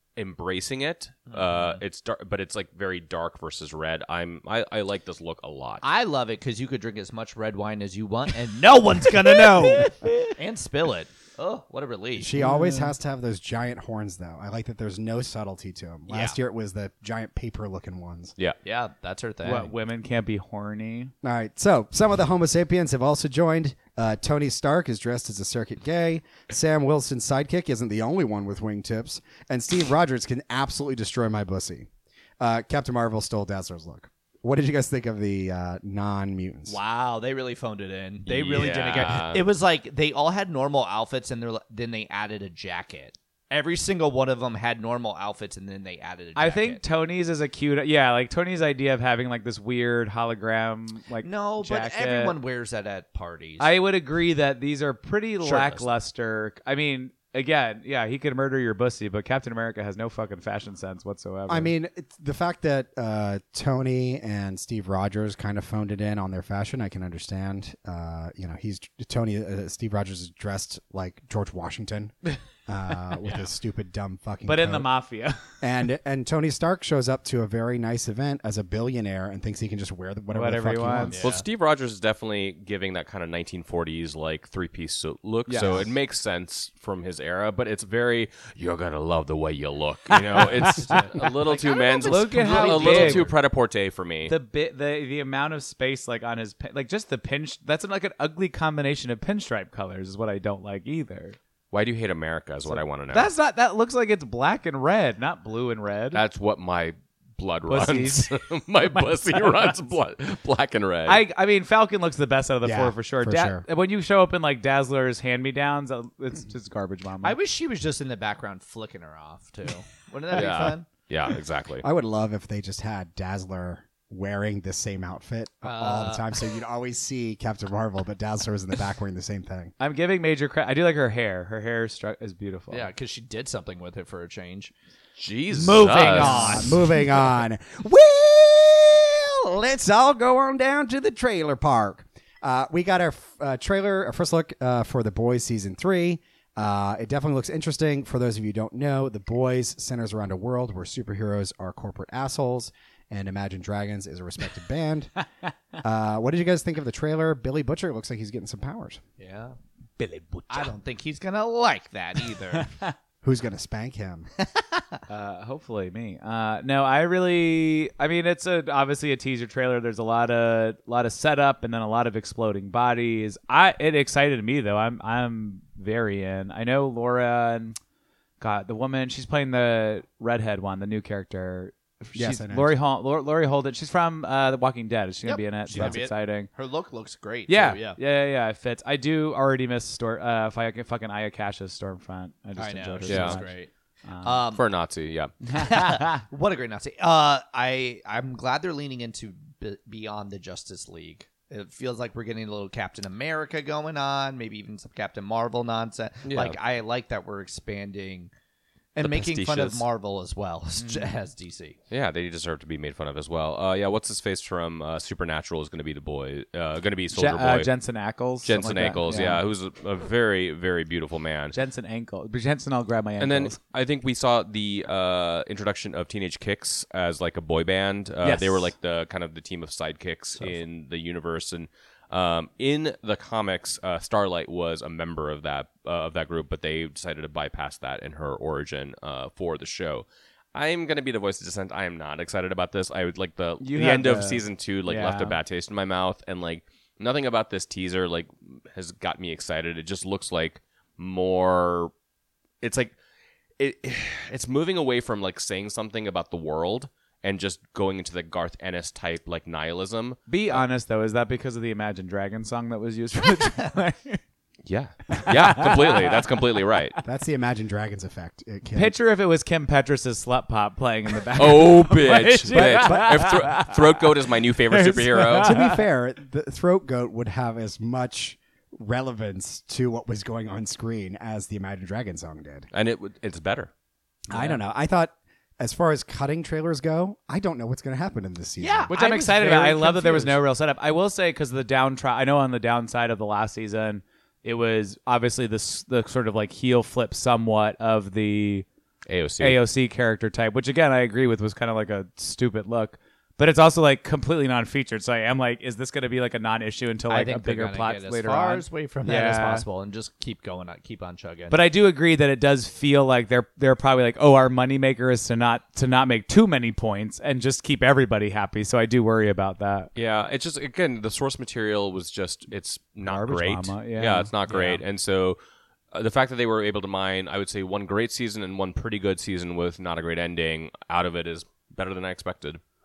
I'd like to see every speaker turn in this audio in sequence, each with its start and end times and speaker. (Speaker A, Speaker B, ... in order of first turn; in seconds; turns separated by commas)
Speaker A: 0.2-5.8, Speaker B: 1.3-1.8, Speaker B: 5.8-12.4, Speaker C: 9.2-10.3, Speaker D: 9.6-9.8, Speaker D: 12.2-18.3, Speaker C: 12.3-12.9, Speaker B: 16.1-16.4, Speaker B: 18.6-19.7, Speaker C: 19.4-21.1, Speaker D: 21.2-36.8, Speaker B: 36.7-46.8, Speaker A: 38.3-39.5, Speaker C: 46.4-52.4, Speaker B: 51.2-53.7, Speaker C: 53.6-61.7, Speaker B: 55.4-55.9, Speaker D: 61.5-74.9, Speaker C: 74.5-75.5, Speaker D: 75.6-81.2, Speaker C: 80.3-81.2, Speaker B: 81.1-81.5, Speaker A: 81.2-94.3, Speaker C: 85.5-85.8, Speaker C: 90.1-91.3, Speaker B: 90.4-93.3, Speaker C: 92.0-93.3, Speaker C: 94.3-101.4, Speaker A: 101.7-103.3, Speaker C: 102.7-106.2, Speaker A: 106.1-111.2, Speaker C: 107.7-108.3, Speaker C: 108.9-109.8, Speaker C: 111.0-117.4, Speaker D: 112.6-113.6, Speaker B: 117.2-120.9, Speaker A: 120.3-121.8, Speaker D: 121.8-129.7, Speaker B: 125.6-126.3, Speaker C: 129.8-132.9, Speaker B: 132.7-134.7, Speaker A: 135.2-136.6, Speaker C: 135.5-136.8, Speaker B: 136.0-136.3, Speaker D: 136.1-155.1, Speaker D: 155.8-159.0, Speaker B: 159.2-159.6, Speaker C: 160.0-160.7, Speaker B: 160.5-162.7, Speaker C: 162.5-162.9, Speaker D: 163.2-164.3, Speaker B: 164.4-165.0, Speaker C: 165.1-177.8, Speaker C: 178.4-186.5, Speaker D: 182.1-182.8, Speaker B: 185.2-188.0, Speaker C: 187.5-194.4, Speaker B: 192.6-193.7, Speaker A: 193.1-193.4, Speaker B: 194.2-194.6, Speaker A: 194.5-195.3, Speaker C: 195.4-196.2, Speaker B: 195.5-208.3, Speaker A: 206.2-206.6, Speaker B: 208.9-211.8, Speaker A: 209.0-209.8, Speaker C: 210.8-211.1, Speaker A: 211.9-217.7, Speaker C: 217.1-219.4, Speaker A: 218.4-221.5, Speaker C: 221.5-223.6, Speaker A: 223.2-251.9, Speaker C: 228.2-228.7, Speaker C: 243.6-245.4, Speaker A: 252.6-252.9, Speaker A: 253.6-260.2, Speaker C: 260.3-264.2, Speaker A: 264.6-266.9, Speaker C: 265.1-266.4, Speaker D: 267.0-268.9, Speaker C: 268.7-274.1, Speaker A: 271.4-275.6, Speaker D: 272.5-273.4, Speaker C: 274.7-275.8, Speaker D: 275.4-282.7, Speaker A: 282.7-283.7, Speaker D: 284.3-288.9, Speaker C: 284.3-284.6, Speaker B: 288.6-290.4, Speaker C: 288.9-298.6, Speaker A: 299.1-299.6, Speaker C: 299.4-309.6, Speaker B: 307.1-311.6, Speaker C: 311.5-319.9, Speaker A: 319.9-325.4, Speaker C: 323.1-324.8, Speaker A: 325.9-332.6